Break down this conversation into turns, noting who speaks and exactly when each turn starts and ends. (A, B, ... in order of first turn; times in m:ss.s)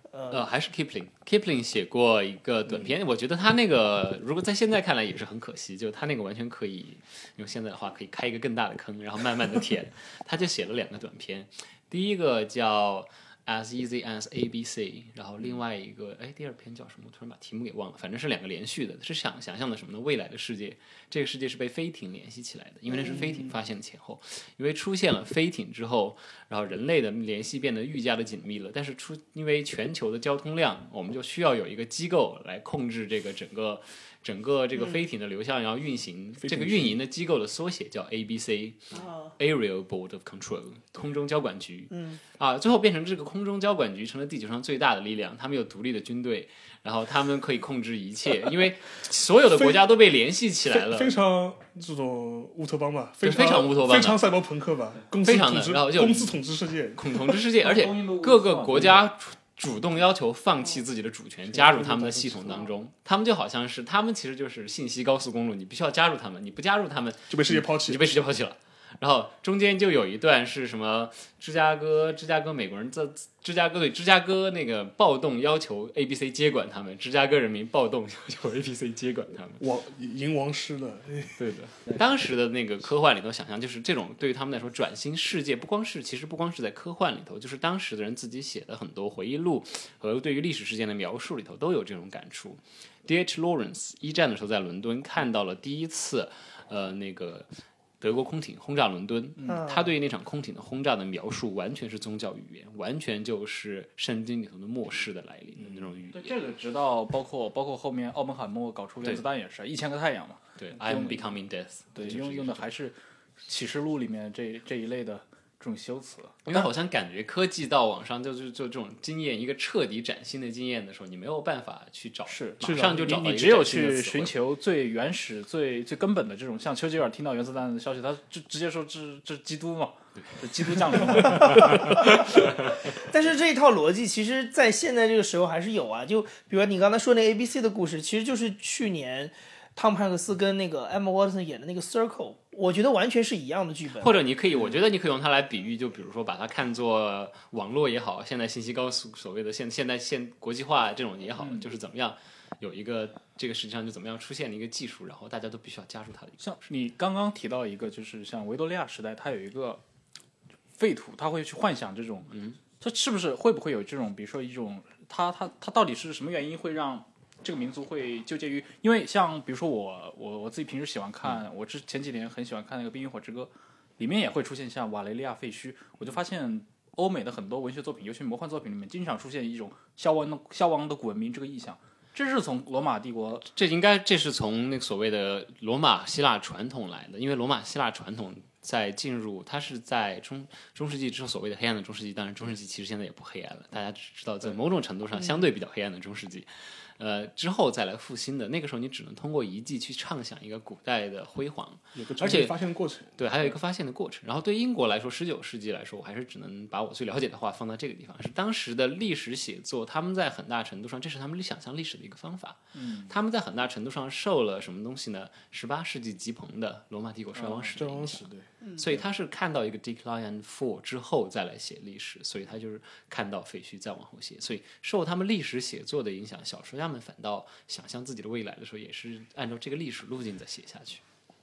0:00.1-0:00.5 A
0:00.3-0:51.1 B
0:34.8-0:35.0 A
0:36.4-0:37.0 C
0:38.9-0:39.3 A
0:41.9-0:42.2 A
0:50.7-0:57.4 C
0:53.2-0:54.2 B
0:55.2-0:56.4 B
0:57.0-1:19.6 B
0:57.6-0:59.0 D
1:01.5-1:02.6 C
1:07.3-1:08.1 C
1:19.6-1:21.4 C
1:21.4-1:37.5 B
1:38.0-1:46.3 B
1:39.4-1:39.9 A
1:46.1-1:51.3 D
1:50.6-1:52.6 B
1:51.9-1:56.4 D
1:56.4-2:04.3 B
2:02.3-2:11.9 D
2:02.6-2:03.0 C
2:11.4-2:24.2 A
2:23.9-2:36.4 B
2:36.4-2:39.8 D
2:40.8-3:03.4 D
2:42.3-2:42.6 B
3:03.4-3:22.6 B
3:21.9-3:23.2 C
3:23.2-3:51.0 B
3:32.7-3:33.1 D
3:37.5-3:39.0 C